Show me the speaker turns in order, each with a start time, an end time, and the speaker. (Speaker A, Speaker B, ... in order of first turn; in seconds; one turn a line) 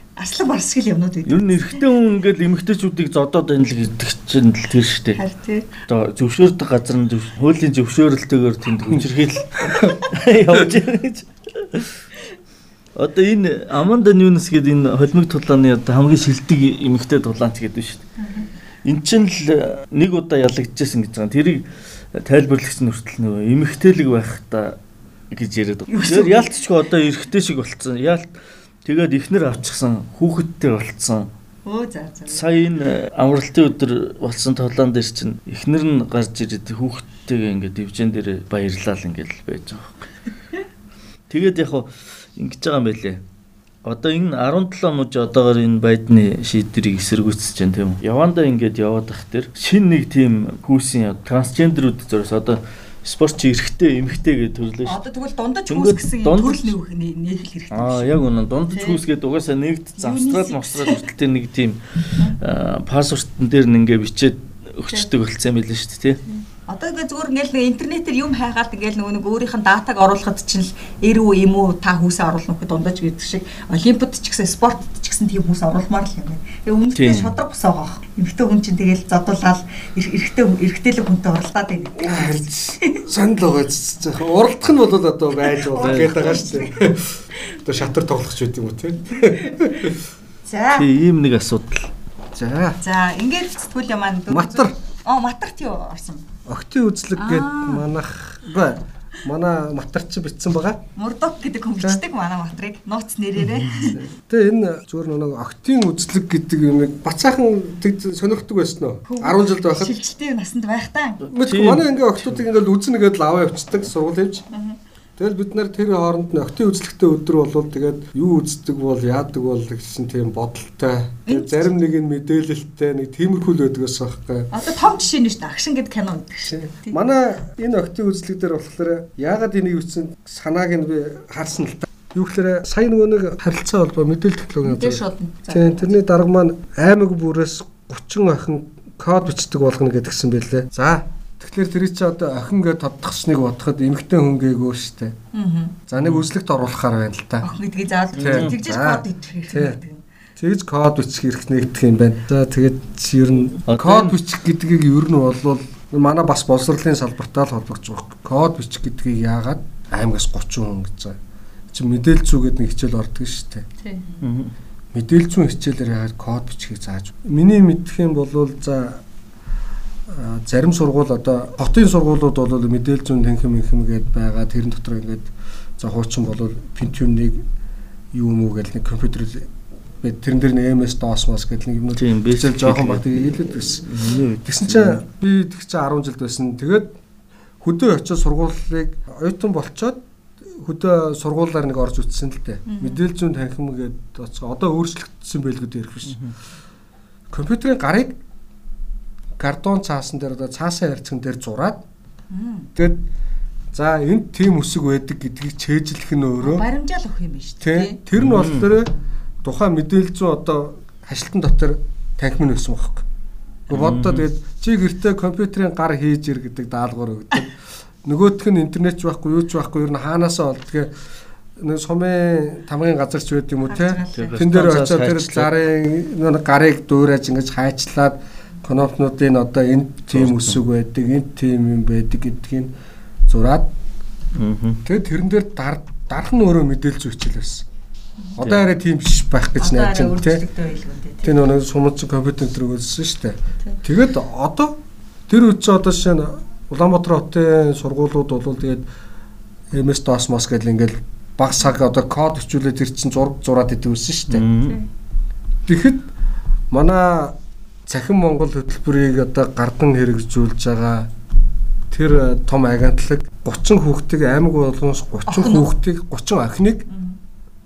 Speaker A: 0.2-1.8
Speaker B: 1.2-5.2
Speaker A: 5.2-5.7
Speaker B: 5.9-12.0
Speaker B: 12.9-18.0
Speaker B: 18.8-24.8
Speaker B: 25.3-31.3
Speaker A: 25.9-26.6
Speaker A: 31.6-32.5
Speaker B: 32.3-40.0
Speaker B: 41.3-43.2
Speaker B: 43.8-55.0
Speaker A: 54.9-58.2
Speaker B: 55.7-56.8
Speaker B: 57.7-66.2
Speaker A: 58.7-59.0
Speaker A: 60.0-61.0
Speaker A: 66.3-83.0
Speaker B: 76.9-77.3
Speaker C: 82.0-90.0
Speaker A: 85.4-86.9
Speaker B: 85.8-86.2
Speaker A: 89.3-89.9
Speaker A: 90.5-90.9
Speaker B: 90.7-91.9
Speaker C: 92.3-92.8
Speaker A: 92.8-96.3
Speaker C: 94.3-94.7
Speaker C: 96.5-100.8
Speaker A: 97.2-97.9
Speaker A: 101.0-104.1
Speaker C: 104.0-110.0
Speaker A: 109.1-111.2
Speaker B: 111.3-112.4
Speaker C: 111.3-114.5
Speaker A: 114.5-114.8
Speaker C: 115.2-124.5
Speaker A: 121.3-121.7
Speaker A: 124.5-127.0
Speaker C: 126.5-145.1
Speaker A: 134.6-136.0
Speaker A: 145.3-145.8
Speaker C: 145.9-147.5
Speaker B: 146.0-146.2
Speaker A: 147.4-150.0
Speaker B: 148.2-148.5
Speaker C: 148.2-149.8
Speaker C: 150.4-161.2
Speaker B: 153.7-154.1
Speaker C: 161.7-163.6
Speaker B: 164.2-164.5
Speaker C: 164.9-169.0
Speaker C: 170.1-177.4
Speaker C: 178.1-179.5
Speaker C: 180.0-186.9
Speaker B: 181.9-185.0
Speaker C: 187.6-196.2
Speaker A: 192.7-193.0
Speaker B: 196.1-196.3
Speaker C: 197.3-198.2
Speaker C: 199.4-201.8
Speaker A: 202.3-202.7
Speaker C: 202.7-203.0
Speaker C: 203.7-206.6
Speaker A: 206.4-208.0
Speaker C: 207.6-208.9
Speaker B: 208.1-208.7
Speaker C: 209.4-213.0
Speaker C: 213.7-220.9
Speaker B: 213.7-214.2
Speaker C: 221.6-232.7
Speaker A: 223.7-224.3
Speaker B: 224.2-225.5
Speaker B: 230.1-230.6
Speaker C: 233.3-233.7
Speaker B: 234.3-234.8
Speaker C: 234.8-237.7
Speaker C: 238.4-240.4
Speaker B: 238.4-238.7
Speaker A: 239.6-241.4
Speaker C: 241.2-248.8
Speaker C: 249.7-254.5
Speaker B: 254.3-254.8
Speaker C: 255.7-256.1
Speaker C: 256.7-261.1
Speaker C: 261.9-266.9
Speaker A: 265.3-265.7
Speaker A: 266.9-267.1